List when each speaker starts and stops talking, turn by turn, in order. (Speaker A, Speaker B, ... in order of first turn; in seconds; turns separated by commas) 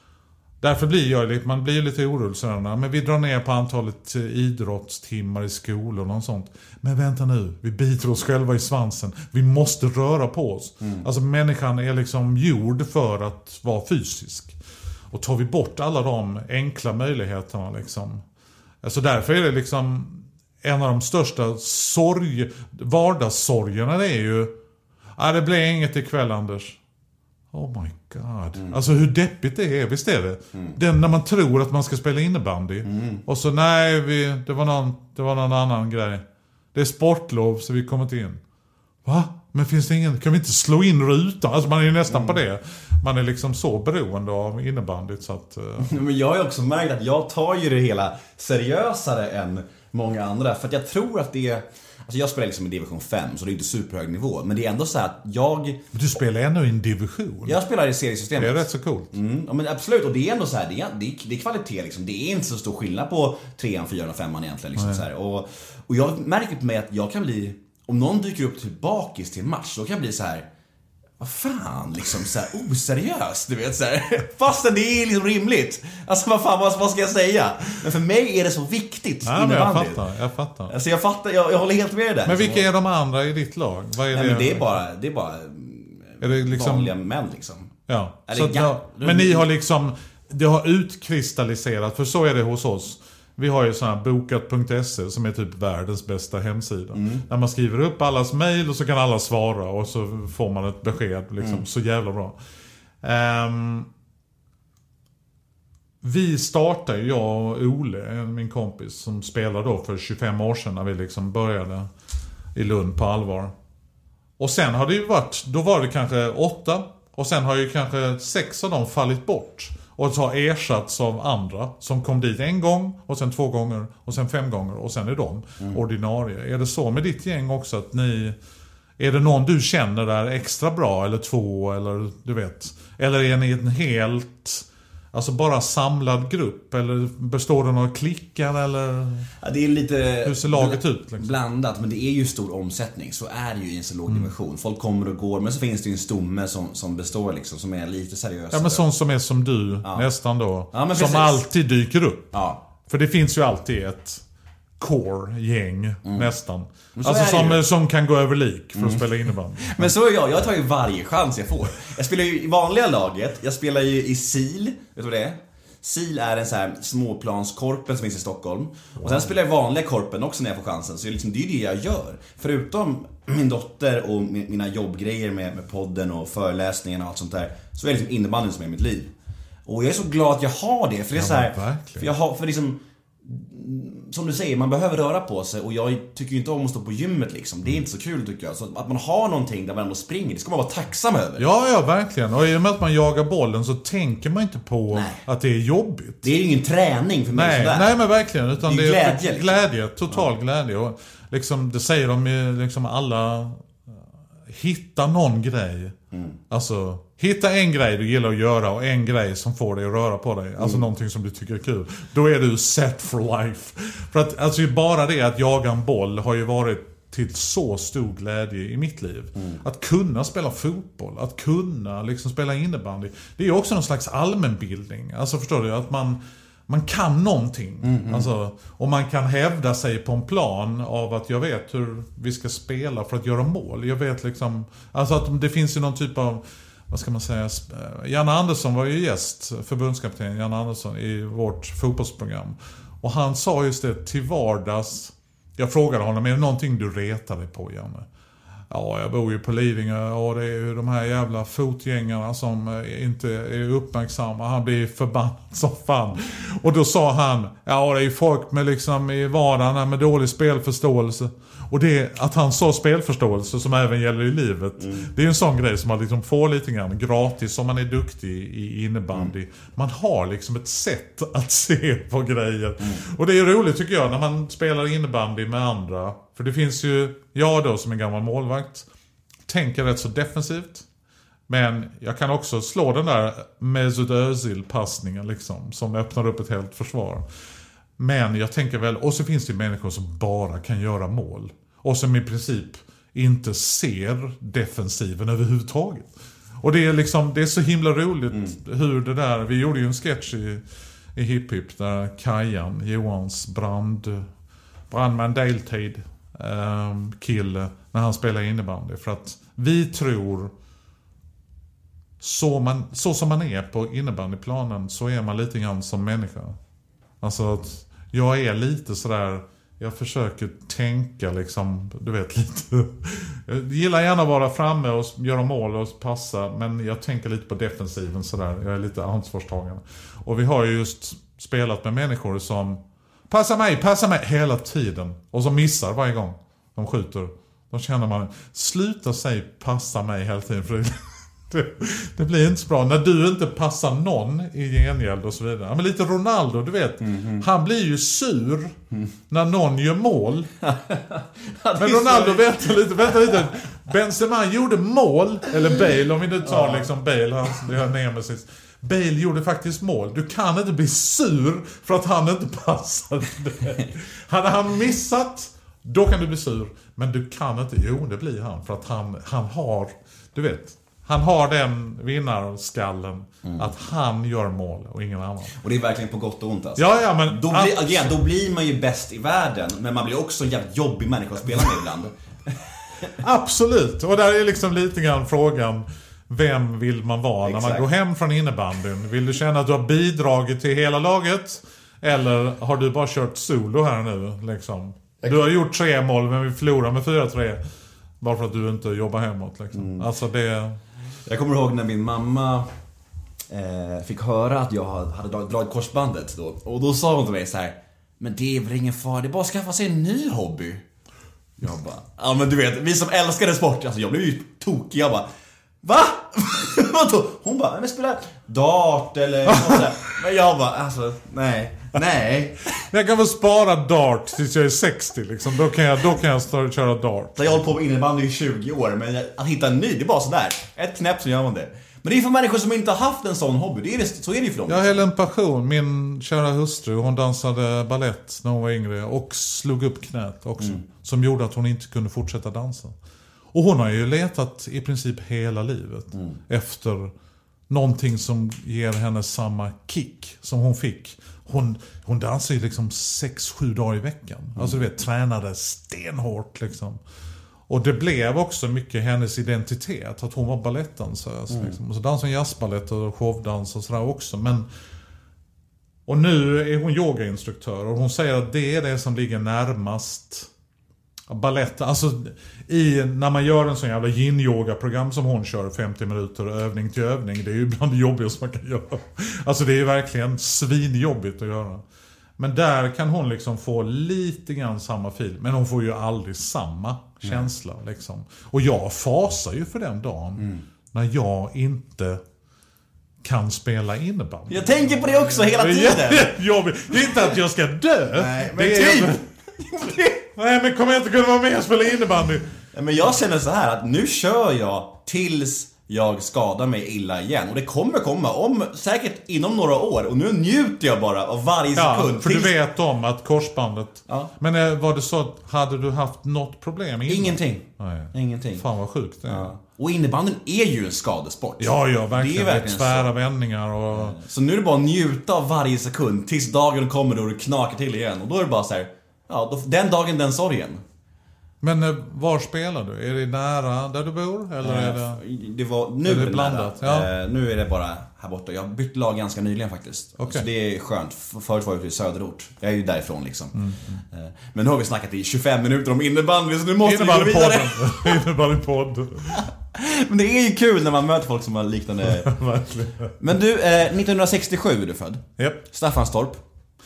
Speaker A: 0.6-14.6, Speaker A: 15.1-18.2, Speaker A: 18.8-24.5, Speaker A: 25.2-26.8, Speaker A: 27.5-38.4, Speaker B: 32.9-33.2, Speaker A: 39.0-46.0, Speaker B: 42.1-42.4, Speaker B: 45.8-55.9, Speaker A: 55.9-57.6, Speaker B: 57.5-70.5, Speaker A: 58.4-59.1, Speaker B: 71.2-80.0, Speaker A: 79.2-80.7, Speaker B: 80.7-82.7, Speaker A: 82.3-84.8, Speaker B: 84.1-87.8, Speaker A: 86.2-86.9, Speaker A: 87.9-102.4, Speaker B: 88.3-89.5, Speaker B: 96.9-97.3, Speaker B: 101.4-101.7, Speaker A: 103.0-103.9, Speaker A: 106.0-111.9, Speaker A: 112.5-113.5, Speaker A: 114.4-128.4, Speaker A: 129.0-139.3, Speaker B: 139.4-148.8, Speaker A: 140.2-141.3, Speaker A: 148.5-152.3, Speaker B: 150.7-151.4, Speaker B: 152.3-152.6, Speaker A: 152.8-154.2, Speaker A: 154.8-159.9, Speaker B: 156.1-156.3, Speaker B: 156.9-157.6, Speaker B: 158.8-159.1, Speaker B: 159.6-179.1, Speaker A: 169.0-169.3, Speaker B: 179.7-191.5, Speaker A: 181.2-182.1, Speaker A: 191.4-196.3, Speaker B: 194.9-195.2, Speaker B: 196.2-197.9, Speaker A: 197.3-204.0, Speaker B: 198.6-200.3, Speaker A: 204.5-205.9, Speaker B: 206.1-206.4, Speaker A: 206.5-248.1, Speaker B: 219.4-219.6, Speaker B: 227.8-228.3, Speaker A: 248.7-278.9, Speaker B: 264.8-265.1, Speaker A: 279.5-280.9, Speaker A: 281.5-287.2, Speaker A: 288.0-300.6, Speaker A: 301.1-304.3, Speaker A: 304.9-310.5, Speaker A: 312.2-316.6, Speaker A: 317.2-348.8, Speaker B: 347.0-347.4, Speaker A: 349.3-350.5, Speaker B: 350.6-353.3, Speaker A: 351.8-375.6, Speaker B: 356.5-356.9, Speaker B: 375.6-383.2, Speaker A: 376.8-378.1, Speaker A: 383.2-397.6, Speaker B: 387.4-387.9, Speaker A: 398.2-400.8, Speaker B: 399.7-400.1, Speaker B: 401.3-402.7, Speaker B: 403.5-410.9, Speaker B: 411.6-415.3, Speaker B: 415.8-422.7, Speaker A: 419.5-419.9, Speaker A: 422.8-427.6, Speaker B: 427.4-435.0, Speaker A: 434.7-442.9, Speaker A: 443.5-447.1, Speaker B: 446.1-446.4, Speaker A: 447.7-457.0, Speaker A: 457.7-464.7, Speaker B: 461.5-461.8, Speaker A: 466.1-470.5, Speaker A: 471.3-481.8, Speaker A: 482.4-492.2, Speaker A: 493.2-499.2, Speaker B: 494.5-496.3, Speaker B: 498.1-500.2, Speaker A: 500.3-502.5, Speaker B: 502.7-512.5, Speaker A: 511.8-519.5, Speaker B: 517.1-518.6, Speaker B: 519.3-523.1, Speaker A: 521.6-524.2, Speaker B: 523.9-530.8, Speaker A: 531.6-535.2, Speaker B: 534.6-548.2, Speaker A: 536.0-537.1, Speaker A: 540.2-540.5, Speaker A: 543.5-544.0, Speaker A: 546.8-549.5, Speaker B: 549.3-552.3, Speaker A: 552.1-553.1, Speaker B: 553.2-556.4